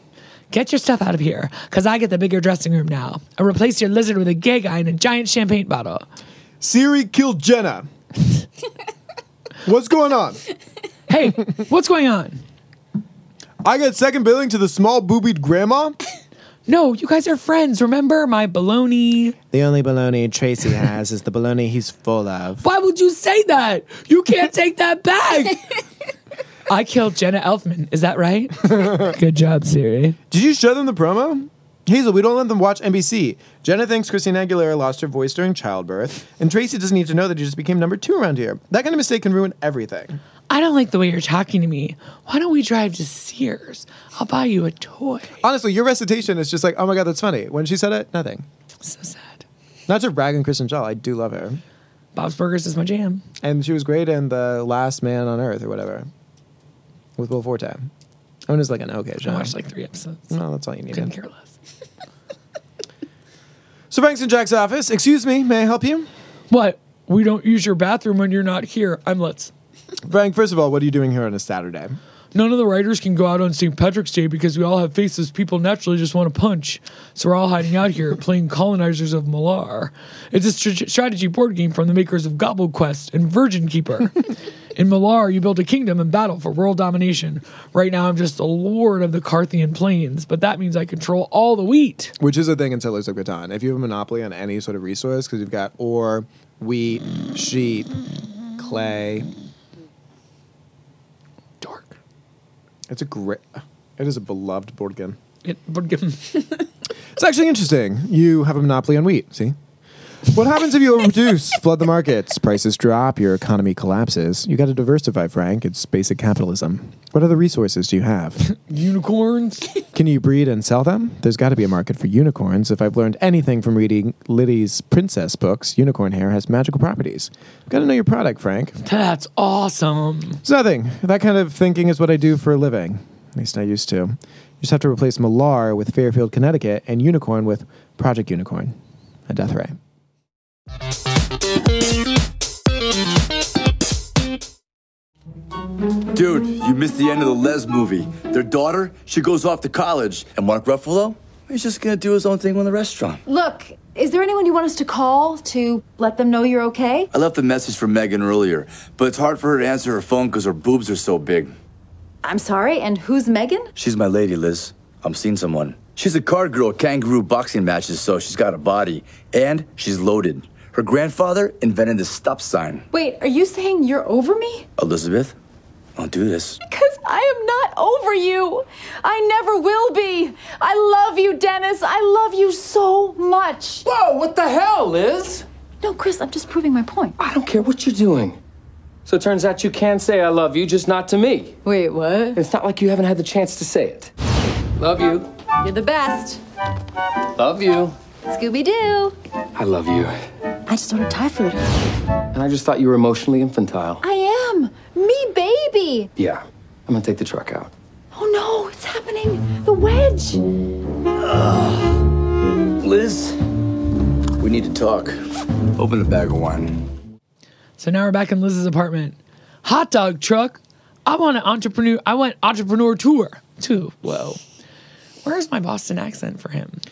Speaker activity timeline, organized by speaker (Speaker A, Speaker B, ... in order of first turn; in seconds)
Speaker A: 0.5-6.0, 11.1-12.4, 16.7-19.4, 22.6-25.6, 26.7-30.2, 40.5-45.4, 48.8-49.4, 52.1-53.2, 59.2-60.4, 60.9-61.5, 66.5-69.5, 72.3-84.2, 84.8-92.1, 101.6-102.0, 105.4-106.5, 118.5-119.8, 128.8-130.4, 217.8-224.4, 225.2-226.8
Speaker B: 6.6-7.9, 9.6-10.4, 13.6-16.0, 19.5-22.6, 28.7-29.1, 30.3-40.2, 45.4-48.5, 49.9-51.6, 53.4-56.1, 57.2-57.9, 58.5-59.5, 60.3-61.1, 63.9-66.1, 70.0-72.0, 92.2-97.9, 98.6-99.3, 102.9-105.2, 107.2-109.6, 110.2-118.5, 119.9-128.8, 130.4-138.8, 139.3-139.8
Speaker C: 146.1-153.2, 157.1-161.5, 163.8-172.8, 174.8-175.3, 175.9-176.6, 211.2-211.9, 212.8-213.4, 214.4-216.9
Speaker D: 153.2-157.1, 162.2-163.7, 172.9-174.7, 176.7-183.8, 185.8-187.2, 191.6-192.4, 195.6-196.4, 198.3-199.1, 200.7-201.6, 204.0-206.1, 208.1-210.4
Speaker E: 183.8-185.4, 187.2-188.4, 189.1-191.6, 192.3-194.1, 194.8-195.3, 197.3-197.9, 199.5-200.2, 202.3-204.0, 206.2-207.7